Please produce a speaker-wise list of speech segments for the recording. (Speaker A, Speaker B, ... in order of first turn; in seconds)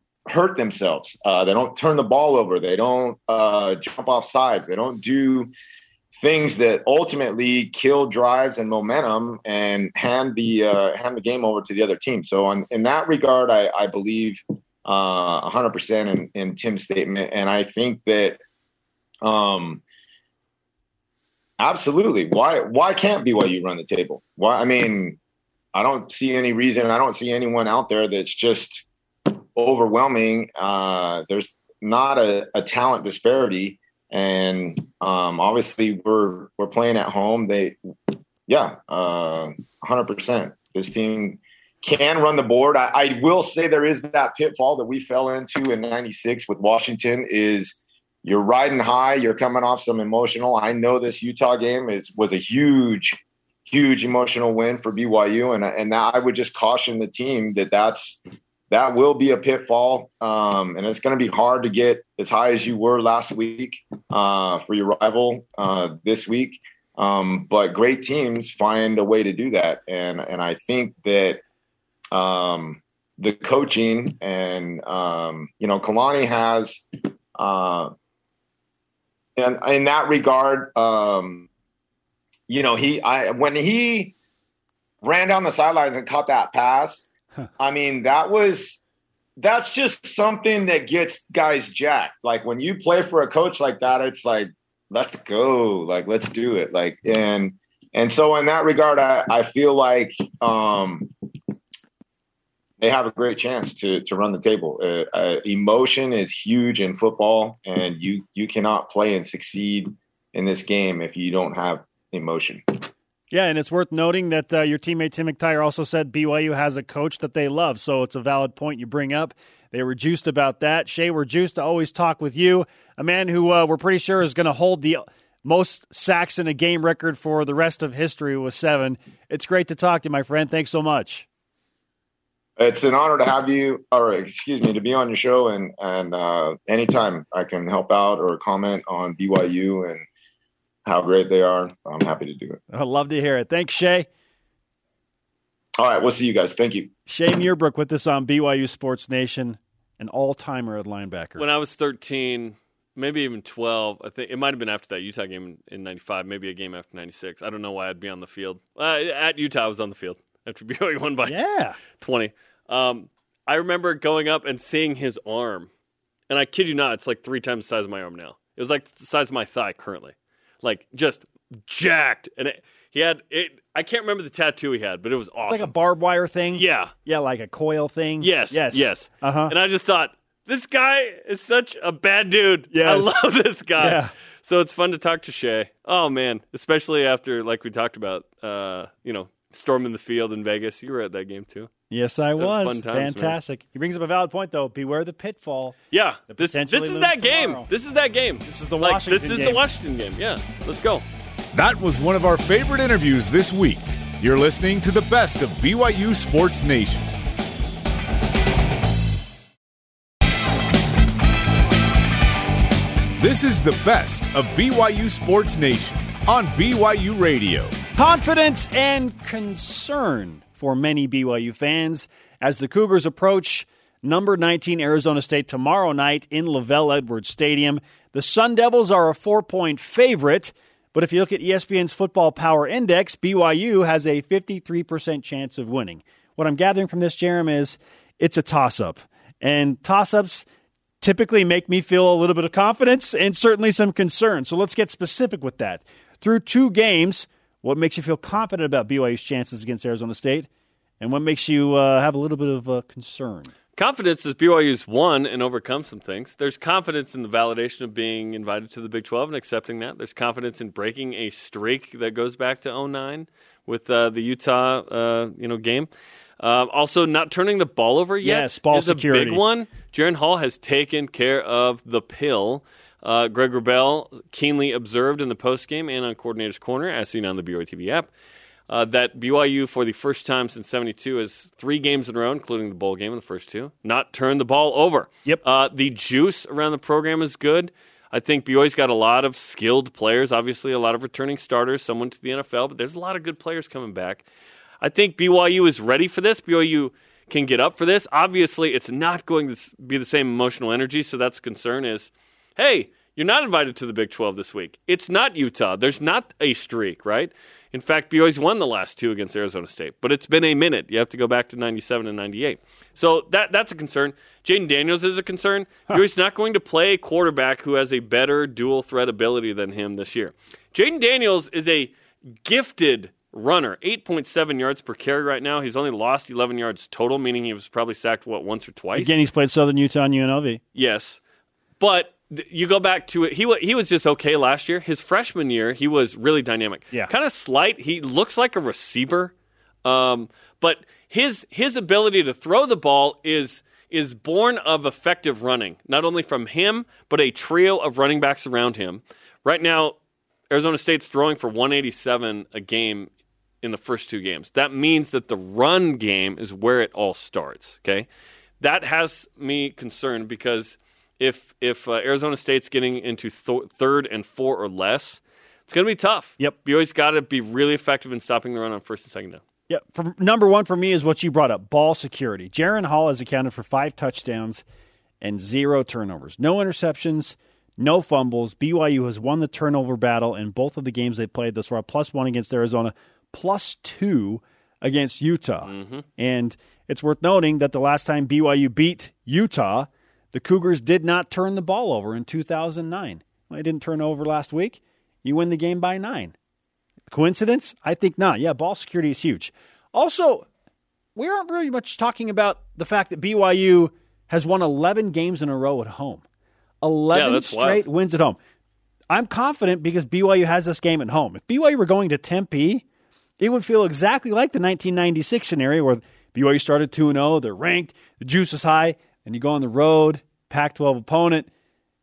Speaker A: 0.2-5.5, 6.2-18.4, 19.2-19.8, 21.6-25.2, 25.7-71.4, 72.1-77.9, 79.4-81.5, 82.5-84.1, 85.0-87.0, 87.6-88.8, 89.4-101.1, 102.8-112.9, 132.6-140.0, 140.8-142.6, 145.8-146.9
Speaker B: 113.3-131.2, 142.7-144.1, 147.1-151.4, 161.3-161.8, 175.5-179.5, 182.7-183.1, 183.8-184.1, 191.9-195.8, 196.3-197.7, 198.4-199.6, 217.9-240.4, 241.0-250.5, 251.0-253.5, 268.2-269.4, 328.9-330.6, 369.7-374.6, 375.2-396.3, 397.1-400.4, 401.1-406.2, 406.8-408.4, 409.1-412.8, 413.4-421.5
Speaker C: 151.4-161.3, 161.9-165.7, 166.3-175.7, 176.6-176.9, 178.2-191.7, 192.4-193.4, 195.9-201.0, 253.8-265.9, 266.4-278.1, 278.7-294.2, 294.8-329.1, 330.7-331.2, 331.8-339.3, 339.8-349.9, 350.5-353.1, 353.6-358.1, 358.6-369.4, 385.6-386.0, 407.1-407.9
Speaker D: 201.5-207.1, 213.2-217.7